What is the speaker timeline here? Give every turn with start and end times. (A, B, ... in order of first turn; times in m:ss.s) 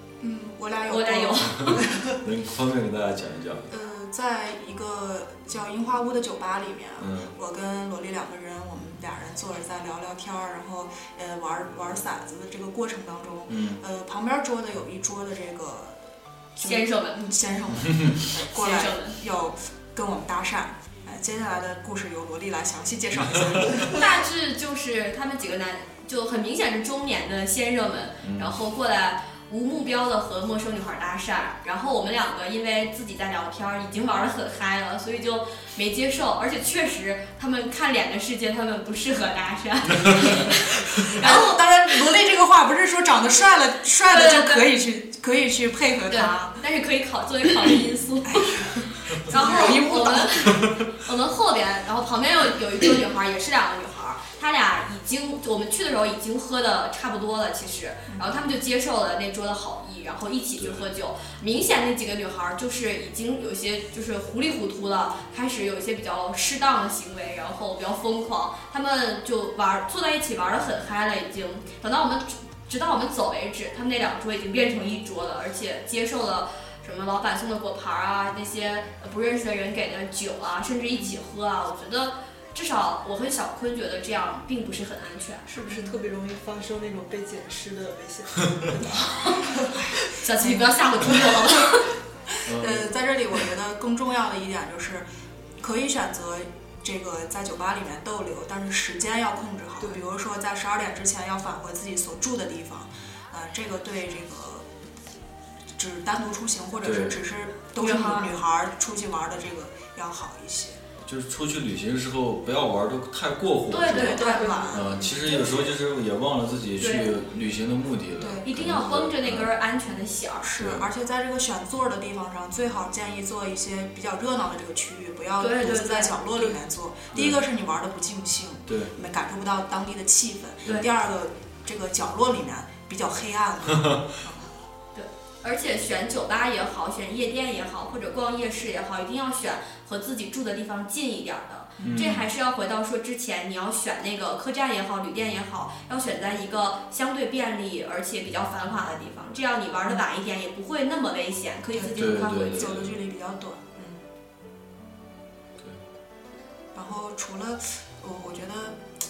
0:00.2-0:02.0 A
0:00.9-0:01.9 B
0:01.7-0:03.7 C
0:03.7-0:24.1 A
0:07.0-0:07.3 C
0:13.5-0:13.8 C
0:16.6-0:17.2 B
0:18.4-0:19.2 B
0:23.8-0:41.6 B
0:28.2-0:28.5 C
0:41.0-0:46.6 A
0:44.1-0:44.7 B
0:46.1-1:25.5 B
0:48.3-0:50.7 A
0:58.1-0:58.4 A
1:00.6-1:00.8 C
1:25.5-1:30.1 D
1:25.7-1:25.9 A
1:29.0-1:29.5 B
1:29.9-1:31.3 A
1:30.2-1:31.9 B
1:32.4-1:35.1 A
1:32.5-1:32.9 C
1:35.6-1:44.7 A
1:45.7-1:50.8 A
1:46.8-1:47.2 C
1:47.8-1:48.3 B
1:51.0-1:59.5 C
1:53.7-1:55.0 B
1:53.8-1:55.7 A
1:56.8-1:57.2 B
1:58.2-1:58.5 A
1:58.4-2:00.5 B
2:00.4-2:14.5 A
2:00.6-2:00.9 C
2:05.4-2:06.2 B
2:07.1-2:07.4 C
2:08.7-2:08.9 C
2:14.9-2:32.8 B
2:21.8-2:22.1 A
2:21.8-2:22.2 C
2:31.7-2:34.1 A
2:32.0-2:32.9 C
2:36.8-2:38.8 A